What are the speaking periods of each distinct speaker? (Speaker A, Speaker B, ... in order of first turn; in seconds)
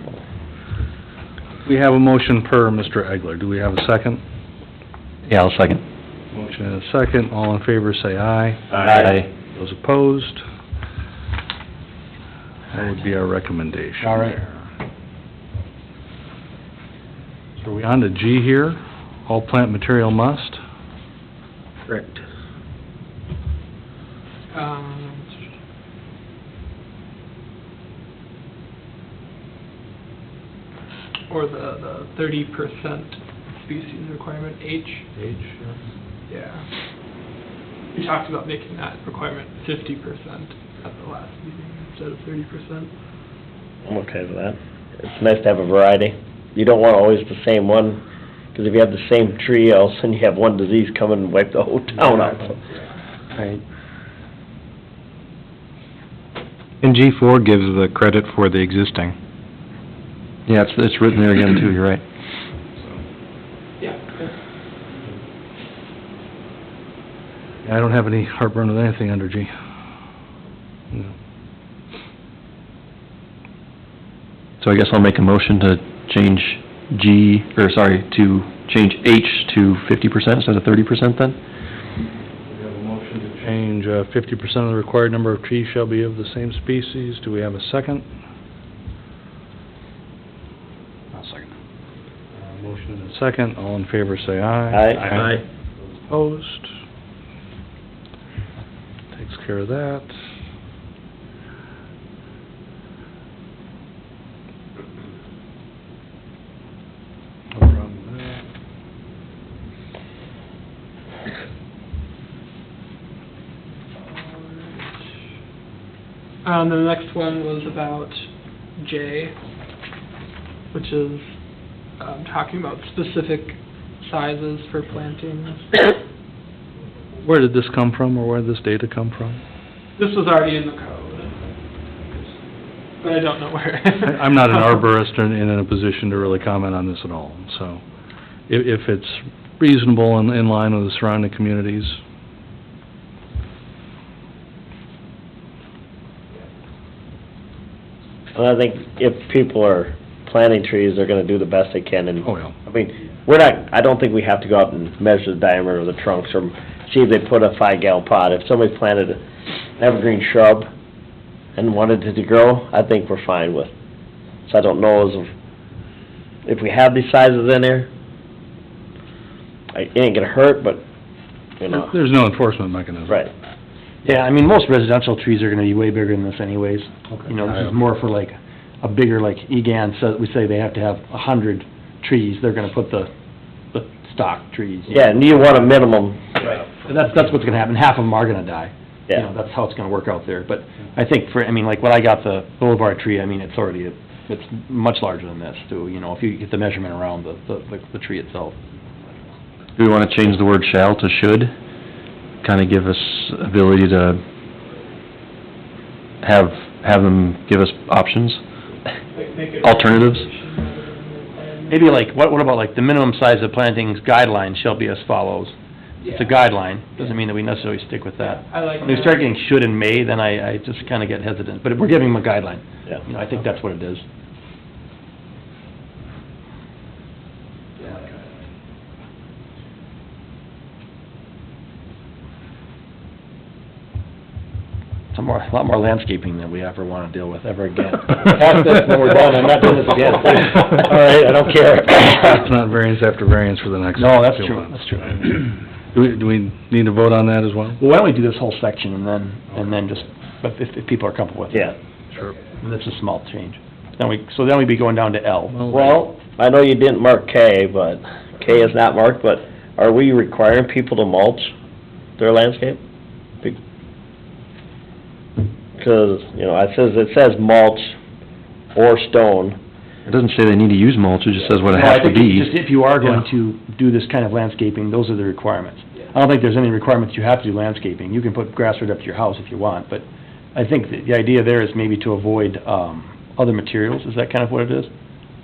Speaker A: 1.6-4.2, 6.3-8.6, 9.5-10.4, 12.7-14.4, 17.6-20.6, 35.1-35.8, 67.6-69.5, 82.4-88.1, 91.2-91.5, 92.3-95.3, 96.0-96.7, 99.1-100.2, 107.5-108.4, 127.2-129.4, 134.0-137.8, 138.5-142.0, 152.2-152.5, 171.7-173.2, 177.1-177.7, 242.1-247.8, 255.5-255.9
Speaker B: 5.3-5.8, 8.9-9.3, 60.5-62.0, 74.6-81.4, 199.8-201.5, 202.4-204.2, 206.2-208.4, 209.6-210.2, 270.1-272.5
Speaker C: 14.0-14.3, 174.0-183.1, 183.7-185.2, 186.8-199.2, 211.7-215.5, 216.1-224.0, 235.1-240.6, 243.9-245.2, 247.8-251.7, 252.6-255.7, 271.7-284.9
Speaker D: 24.5-25.4, 31.3-35.0, 36.3-36.7, 37.9-42.9, 63.8-64.3, 114.0-115.0, 116.4-119.3, 120.7-121.4, 122.0-126.0, 130.0-131.4, 133.0-134.5, 209.1-211.9, 216.0-216.4, 218.2-219.2
Speaker E: 43.8-48.0, 48.5-52.6, 94.7-95.3, 148.3-159.2, 159.8-160.7, 161.6-163.7, 164.5-165.3, 166.4-167.9, 169.7-170.8, 171.6-171.9, 184.9-186.4, 240.4-242.3, 255.7-261.5, 262.2-262.8, 265.8-267.9, 268.7-269.6
Speaker F: 53.4-53.6, 56.8-59.1